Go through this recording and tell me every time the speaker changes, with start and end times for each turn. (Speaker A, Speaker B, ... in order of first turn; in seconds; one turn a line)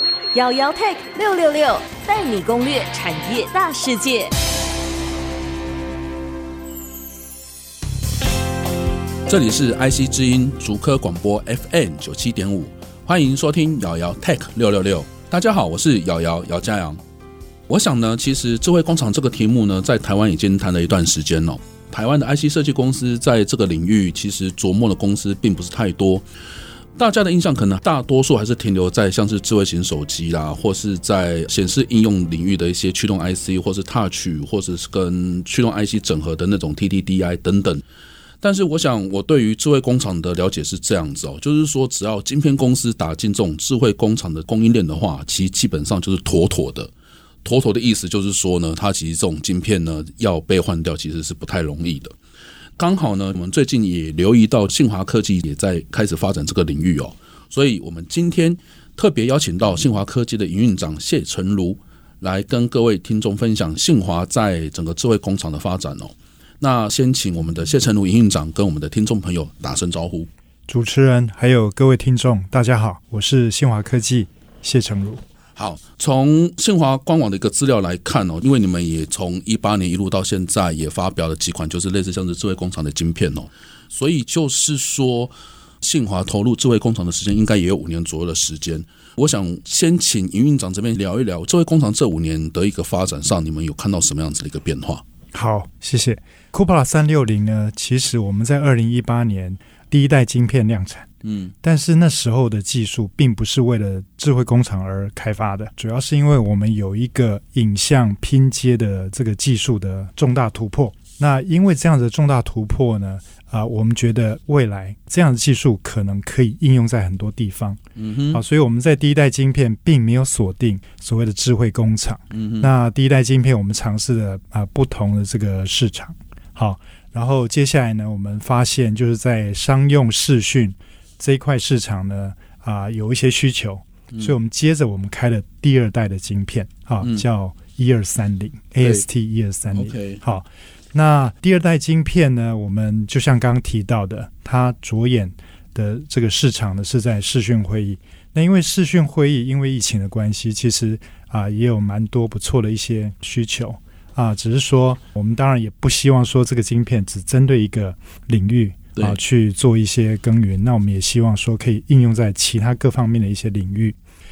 Speaker A: 0.3-4.3
Speaker B: 9.3-17.0
Speaker B: 17.7-26.3
Speaker B: 26.9-37.8
Speaker B: 38.4-46.9
Speaker B: 47.4-52.1
Speaker B: 52.8-70.3
Speaker C: 70.7-75.2
Speaker B: 75.6-95.0
Speaker C: 95.3-101.1
Speaker B: 101.2-101.5
Speaker C: 101.6-117.8
Speaker B: 118.0-118.4
Speaker C: 118.3-164.0
Speaker B: 122.3-122.7
Speaker B: 138.8-139.1
Speaker B: 139.7-140.2